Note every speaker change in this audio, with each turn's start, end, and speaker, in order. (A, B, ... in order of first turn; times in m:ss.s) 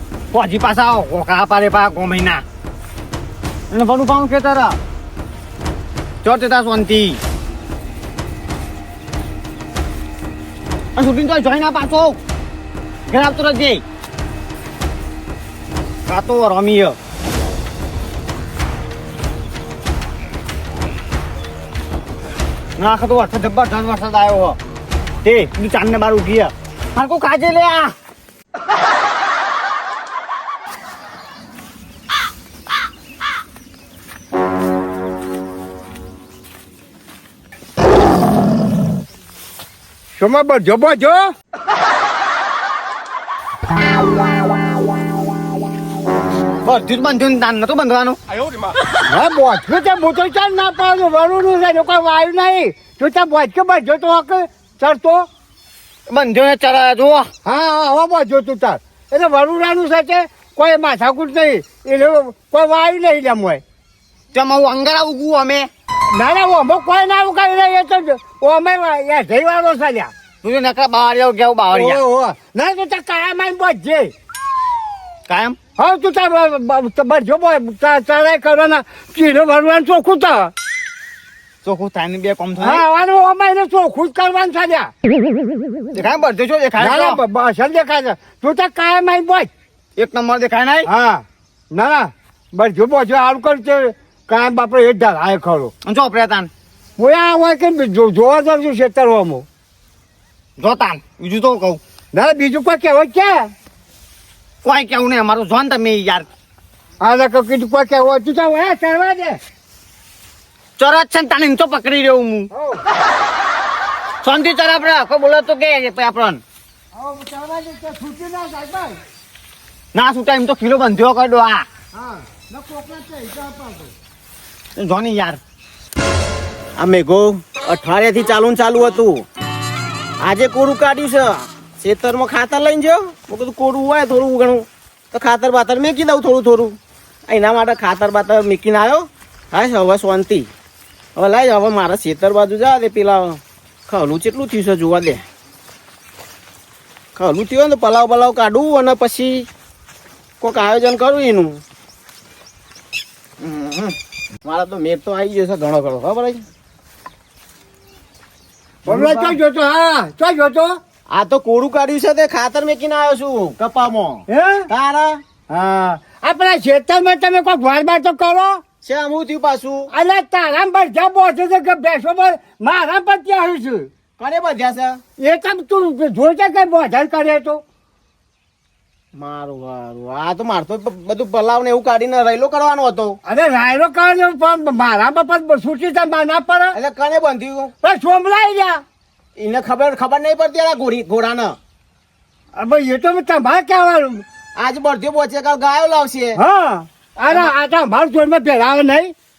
0:00.3-0:02.4 A
0:03.7-0:04.8 A
0:06.2-0:07.2 A
0:11.0-0:12.2 A
0:13.1-0:13.8 A
0:16.1-0:17.0 A
0:22.8-0:24.6 A
0:25.2-0:27.9 A
0:40.2-0:41.2 B
0:46.6-0:48.2 A
0:49.1-0:55.3 B
0:56.1-0:57.3 A
0:57.4-1:03.6 B
1:04.3-1:05.7 A
1:06.1-1:10.1 B
1:10.4-1:12.0 A
1:11.7-1:14.1 B
1:15.3-1:15.6 A
1:15.8-1:20.5 B
1:21.6-1:22.8 A
1:22.6-1:24.9 B
1:25.9-1:27.2 A
1:26.8-1:29.5 B
1:30.0-1:30.9 A
1:30.9-1:35.7 B
1:35.8-1:36.5 A
1:37.0-1:39.4 B
1:40.6-1:41.8 A
1:42.1-1:43.5 B
1:44.6-1:46.3 A
1:47.0-1:49.4 B
1:50.8-1:52.5 A
1:52.5-1:52.8 B
1:54.2-1:56.4 A
1:56.9-1:59.0 B
1:59.9-2:01.6 A
2:01.9-2:03.9 B
2:04.8-2:05.4 A
2:06.8-2:09.2 C
2:10.2-2:20.5 C
2:21.2-2:25.2 C
2:27.2-2:29.5 C
2:30.4-2:31.6 C
2:33.4-2:36.4 C
2:38.9-2:39.4 C
2:38.9-2:40.8 B
2:41.1-2:45.2 C
2:44.3-2:44.7 B
2:45.5-2:48.6 B
2:48.8-2:49.9 C
2:49.9-2:53.9 B
2:54.2-2:55.0 C
2:55.2-2:57.6 B
2:59.2-3:03.2 C
3:03.2-3:06.8 B
3:06.7-3:07.7 C
3:07.8-3:08.8 B
3:09.4-3:11.6 C
3:12.6-3:14.2 B
3:14.6-3:16.4 C
3:16.4-3:19.1 B